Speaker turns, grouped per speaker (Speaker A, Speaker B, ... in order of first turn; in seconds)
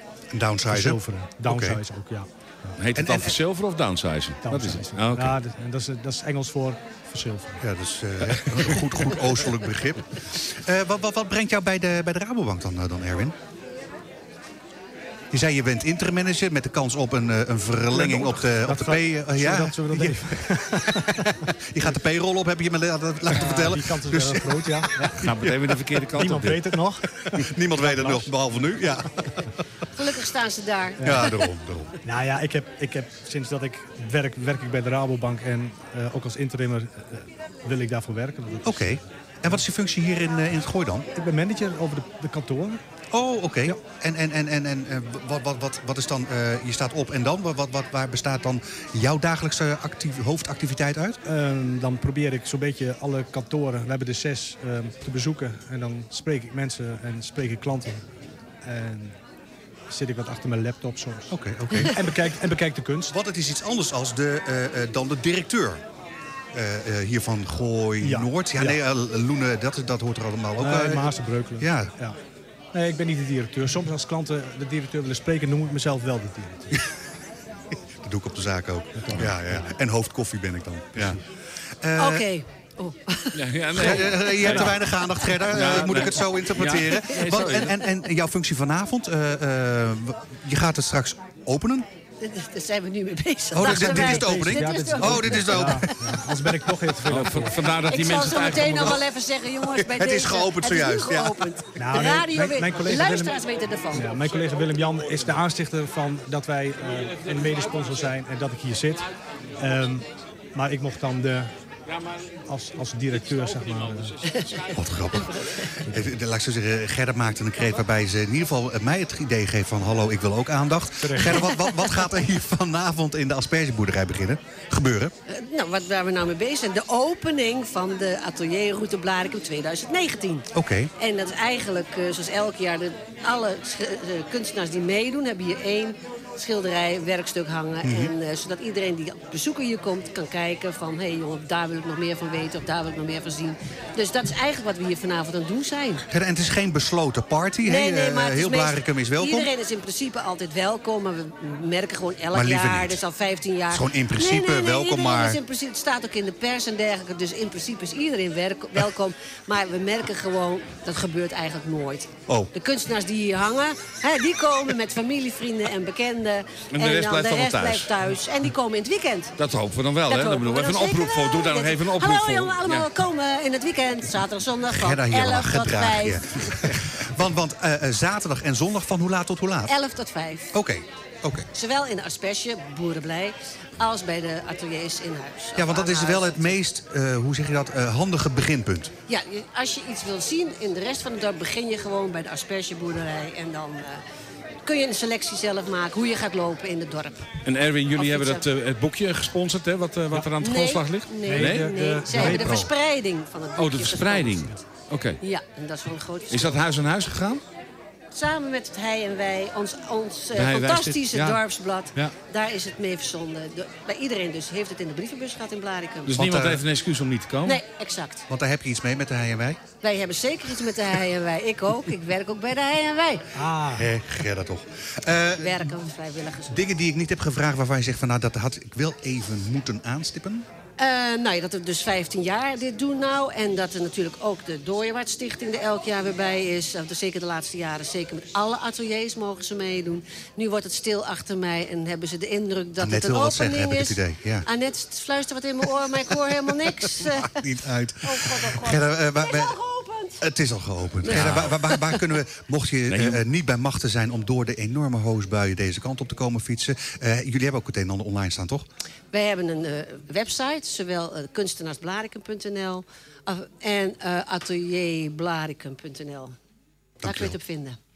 Speaker A: 0.3-1.8, 3.0-3.3, 7.6-13.3, 15.3-25.7, 27.3-29.4, 31.0-31.9, 38.6-41.1, 43.1-51.2, 61.3-62.0, 63.1-65.8, 66.5-71.9, 78.0-81.2, 81.8-82.2, 83.7-91.9, 93.5-95.9, 99.7-101.8, 114.7-125.1, 130.5-130.9, 137.8-138.1, 146.1-149.5, 152.3-153.0, 153.7-155.4, 174.7-179.7, 180.5-181.5, 185.6-188.9, 202.2-202.7, 216.1-216.6, 218.3-219.6, 223.7-225.7, 226.5-230.4, 242.8-244.5, 246.9-249.6, 250.2-258.6, 267.0-267.4
Speaker B: 0.7-2.8, 4.4-7.6, 17.9-21.4, 23.3-25.3, 26.1-28.3, 31.0-31.3, 32.0-39.0, 41.1-42.8, 51.2-58.1, 58.6-59.2, 59.9-63.1, 68.0-68.8, 70.6-72.2, 72.7-76.7, 79.0-79.4, 93.6-97.7, 101.8-109.1, 109.6-111.5, 112.5-114.1, 121.0-121.4, 201.2-202.7, 223.3-223.9
Speaker C: 2.8-5.3, 25.2-26.8, 83.3-84.8, 85.5-87.8, 97.0-99.0, 166.7-167.9, 169.4-172.9, 197.4-202.4, 203.6-205.2, 206.3-207.4, 210.3-211.4, 216.1-217.6, 251.1-251.5, 252.9-253.2
Speaker D: 29.9-31.3, 82.0-86.0, 86.8-87.9, 92.2-96.3, 97.8-104.1, 115.3-115.6, 121.4-121.9, 125.3-146.0, 147.6-169.3, 170.1-176.7, 179.7-180.5, 181.5-186.6, 189.1-194.0, 194.6-197.3, 197.9-198.4, 200.4-204.5, 205.2-206.6, 208.1-216.2, 217.4-218.2, 219.8-223.3, 225.4-226.7, 230.8-247.4, 248.0-250.2, 251.0-252.0, 259.1-266.4, 267.0-267.8